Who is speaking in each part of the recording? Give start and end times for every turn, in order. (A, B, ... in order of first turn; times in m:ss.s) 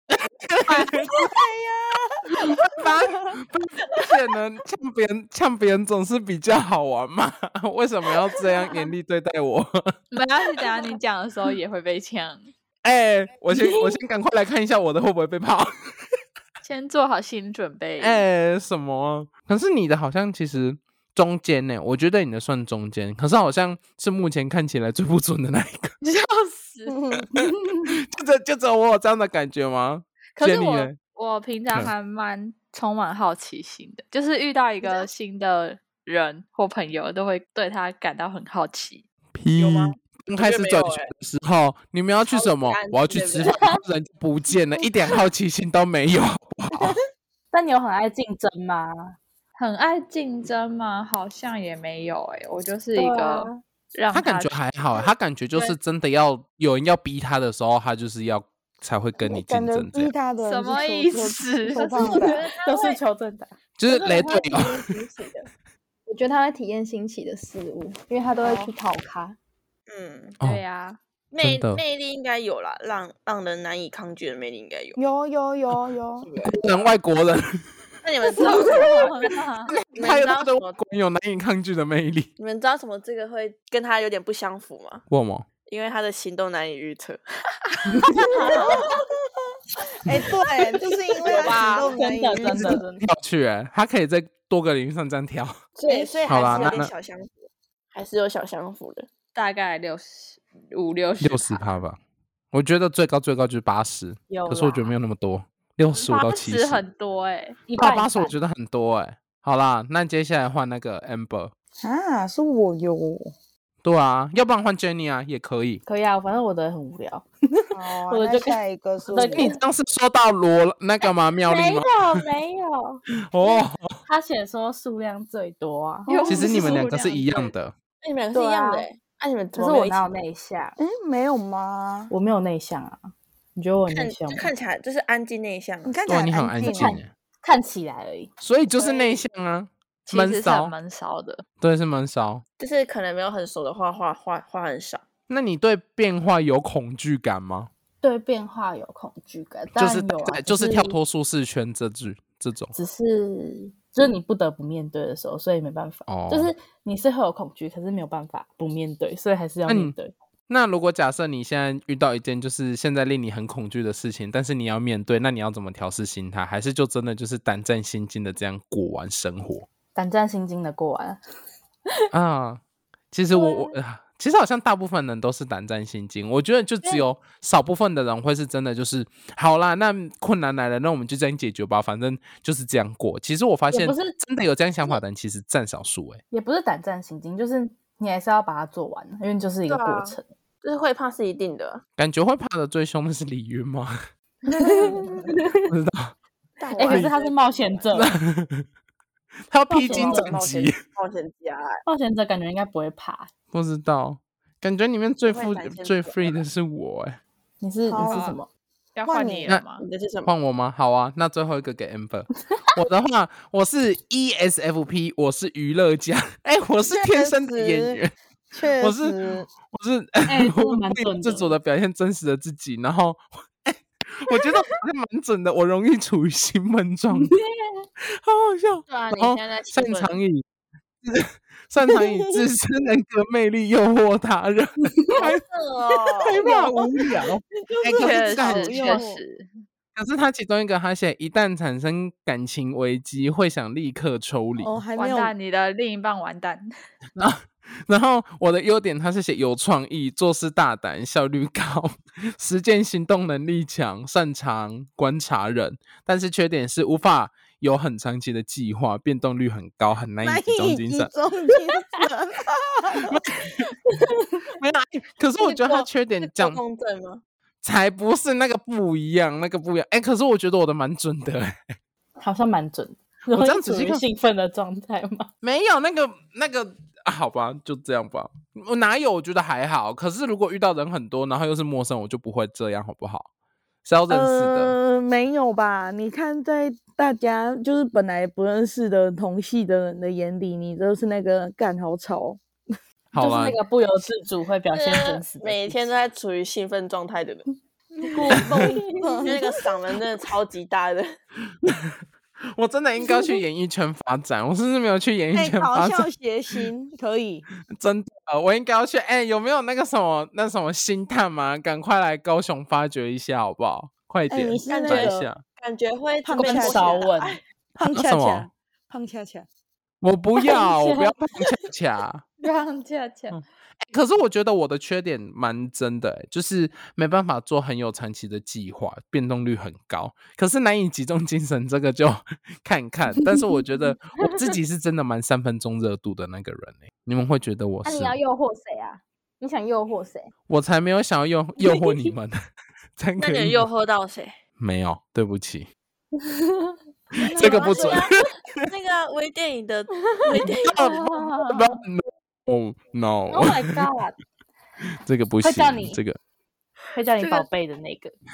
0:00.2-0:01.1 A
0:01.0-0:02.6 B
0:02.8-0:09.8 A
0:10.1-0:12.5 C
0:12.8-0:15.7 A
0:16.6-0:18.2 C
0:18.0-0:25.9 A
0:26.0-0:27.0 C
0:26.9-0:27.9 B
0:28.1-0:31.0 A
0:30.4-0:39.0 C
0:39.4-0:47.0 A
0:39.6-0:41.1 D
0:42.3-0:43.6 D
0:43.5-0:43.8 E
0:47.5-0:49.2 E
0:49.6-0:55.8 C
0:53.0-0:53.6 E
0:54.1-1:00.1 A
0:59.2-1:02.5 B
1:00.4-1:03.0 C
1:02.0-1:03.5 E
1:03.8-1:04.8 A
1:03.9-1:05.4 F
1:06.1-1:08.0 F
1:08.1-1:09.4 E
1:08.4-1:08.7 C
1:09.9-1:10.4 D
1:10.4-1:11.0 C
1:11.3-1:15.0 D
1:11.4-1:11.8 A
1:15.0-1:16.3 B
1:16.2-1:16.8 D
1:16.4-1:17.4 A
1:18.0-1:19.1 D
1:18.4-1:19.8 C
1:19.7-1:22.3 A
1:20.0-1:20.8 D
1:22.4-1:25.0 D
1:25.1-1:25.5 A
1:25.7-1:28.9 D
1:28.0-1:28.3 A
1:28.5-1:29.0 B
1:30.0-1:32.8 B
1:30.8-1:31.8 D
1:31.3-1:32.0 C
1:31.8-1:33.0 E
1:32.5-1:35.6 A
1:35.8-1:39.1 D
1:35.9-1:36.8 B
1:36.3-1:36.9 A
1:39.4-1:41.7 C
1:41.2-1:42.0 A
1:42.5-1:46.8 A
1:44.3-1:44.9 E
1:45.9-1:47.6 C
1:47.7-1:48.3 E
1:47.8-1:51.5 A
1:51.8-1:53.3 B
1:53.8-1:55.8 A
1:55.9-1:59.6 E
1:57.7-1:59.6 B
1:59.3-2:02.0 A
2:01.5-2:03.0 E
2:03.2-2:04.0 A
2:04.1-2:06.5 E
2:06.1-2:06.8 B
2:06.1-2:07.5 C
2:06.3-2:07.7 A
2:08.0-2:10.0 D
2:08.3-2:08.8 B
2:09.5-2:10.8 E
2:10.8-2:12.1 B
2:12.1-2:14.5 E
2:13.9-2:15.9 D
2:15.8-2:17.0 B
2:16.1-2:17.1 A
2:16.6-2:18.3 E
2:18.4-2:20.7 A
2:18.8-2:19.2 D
2:20.1-2:21.4 C
2:21.6-2:22.4 A
2:22.6-2:25.0 D
2:25.3-2:27.7 A
2:28.0-2:31.0 E
2:29.8-2:32.7 A
2:32.7-2:40.1 E
2:36.1-2:36.5 A
2:39.7-2:40.0 A
2:40.5-2:49.7 A
2:50.0-2:51.2 E
2:52.1-3:06.2 A
2:53.3-2:53.7 E
3:03.7-3:04.2 E
3:06.3-3:10.3 E
3:09.7-3:11.8 D
3:12.0-3:14.0 A
3:14.5-3:15.7 E
3:14.7-3:15.1 B
3:15.7-3:16.1 A
3:16.6-3:17.9 D
3:16.7-3:18.1 E
3:17.9-3:18.6 A
3:19.5-3:20.8 A
3:19.7-3:20.4 E
3:19.8-3:21.8 D
3:21.9-3:23.3 E
3:23.5-3:27.2 A
3:25.2-3:26.4 D
3:27.6-3:28.5 E
3:27.9-3:28.3 B
3:28.0-3:28.4 C
3:29.0-3:29.8 C
3:29.0-3:29.6 B
3:29.8-3:30.3 D
3:30.2-3:38.1 A
3:36.8-3:38.0 B
3:38.5-3:39.5 B
3:38.8-3:47.3 A
3:40.3-3:41.6 E
3:48.1-3:50.4 A
3:49.1-3:50.2 D
3:51.0-3:55.4 A
3:54.8-3:55.3 E
3:55.2-3:56.7 D
3:56.2-3:59.0 A
3:56.4-3:56.8 B
3:57.6-3:59.2 B
3:58.0-3:58.5 D
3:58.0-3:59.5 C
4:00.0-4:04.7 A
4:04.6-4:05.4 B
4:05.0-4:06.7 C
4:07.2-4:21.1 A
4:20.2-4:23.2 B
4:23.1-4:23.5 A
4:23.6-4:24.3 E
4:24.6-4:26.6 A
4:25.4-4:27.2 D
4:27.6-4:31.7 A
4:32.2-4:35.3 E
4:33.3-4:34.0 A
4:35.4-4:43.3 A
4:43.8-4:44.8 A
4:44.1-4:52.4 B
4:53.1-4:53.6 A
4:53.2-4:55.8 E
4:54.7-4:57.5 D
4:58.1-4:59.3 E
4:58.1-4:59.4 B
4:59.2-5:01.1 D
5:01.6-5:02.0 A
5:02.6-5:06.1 A
5:05.3-5:07.5 B
5:07.8-5:15.4 A
5:14.3-5:15.3 B
5:14.7-5:17.4 D
5:16.2-5:17.0 B
5:16.4-5:17.4 E
5:17.8-5:19.5 B
5:17.8-5:18.5 A
5:20.0-5:22.3 A
5:20.4-5:21.2 E
5:22.4-5:23.4 C
5:23.3-5:38.2 A
5:37.8-5:40.3 E
5:40.5-5:42.3 A
5:41.6-5:42.1 E
5:43.0-5:43.6 A
5:43.2-5:44.4 D
5:44.6-5:45.7 A
5:46.2-5:46.8 E
5:47.2-5:48.1 B
5:47.3-5:48.2 A
5:47.6-5:50.9 D
5:50.0-5:50.3 E
5:50.6-5:51.5 C
5:50.7-5:53.8 A
5:51.1-5:51.5 E
5:53.3-5:54.2 E
5:55.0-5:56.2 A
5:55.4-5:56.0 E
5:56.9-5:58.1 E
5:57.2-5:57.5 F